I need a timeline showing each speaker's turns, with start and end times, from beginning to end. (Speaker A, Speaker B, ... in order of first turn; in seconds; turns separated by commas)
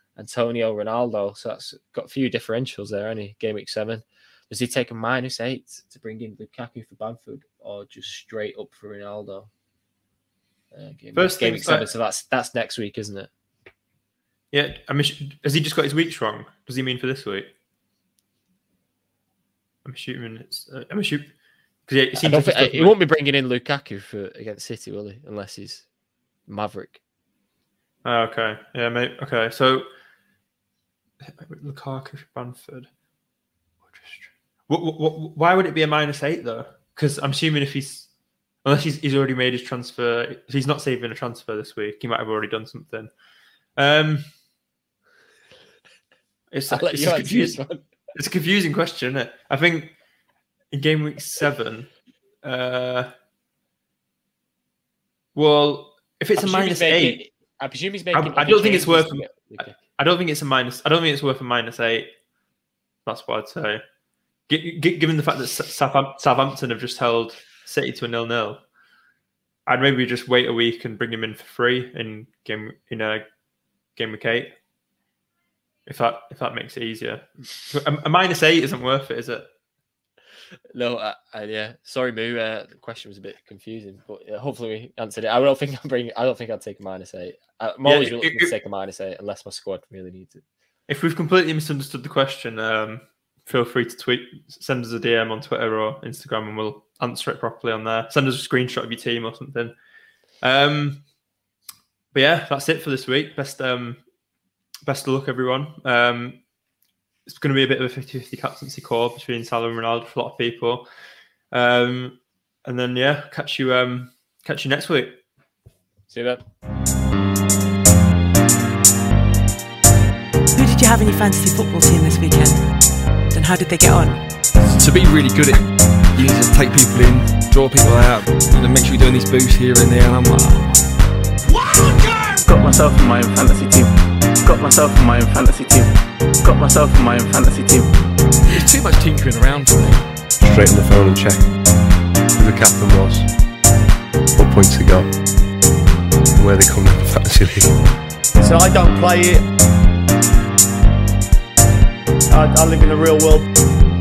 Speaker A: 0.2-9.5, Speaker A: 10.7-13.3, Speaker B: 11.1-11.9, Speaker B: 14.5-17.5, Speaker B: 19.9-21.3, Speaker B: 21.9-22.9, Speaker A: 22.2-25.8, Speaker A: 26.5-27.0, Speaker B: 28.0-29.9, Speaker B: 31.2-32.9, Speaker B: 33.9-38.1, Speaker B: 38.6-43.1, Speaker B: 43.8-44.3, Speaker B: 46.5-47.6, Speaker A: 46.7-47.9, Speaker B: 48.1-50.0, Speaker B: 50.7-51.9, Speaker B: 52.4-53.1, Speaker B: 55.4-57.2, Speaker A: 56.4-59.8, Speaker B: 58.1-62.1, Speaker B: 63.1-63.8, Speaker B: 64.5-68.6, Speaker B: 69.7-73.2, Speaker B: 74.0-74.5, Speaker B: 75.9-79.5, Speaker A: 80.7-90.4, Speaker B: 87.8-88.5, Speaker B: 90.9-99.8, Speaker B: 100.4-101.0, Speaker B: 102.1-104.0, Speaker B: 104.8-106.4, Speaker B: 107.3-110.9, Speaker B: 111.5-115.2, Speaker A: 116.1-116.4, Speaker C: 120.5-122.7, Speaker C: 123.3-124.2, Speaker D: 124.7-131.0, Speaker E: 132.4-137.9, Speaker D: 138.5-140.1, Speaker F: 140.4-143.3, Speaker F: 144.3-145.1, Speaker F: 146.4-147.8, Speaker G: 148.4-149.5, Speaker G: 152.3-153.5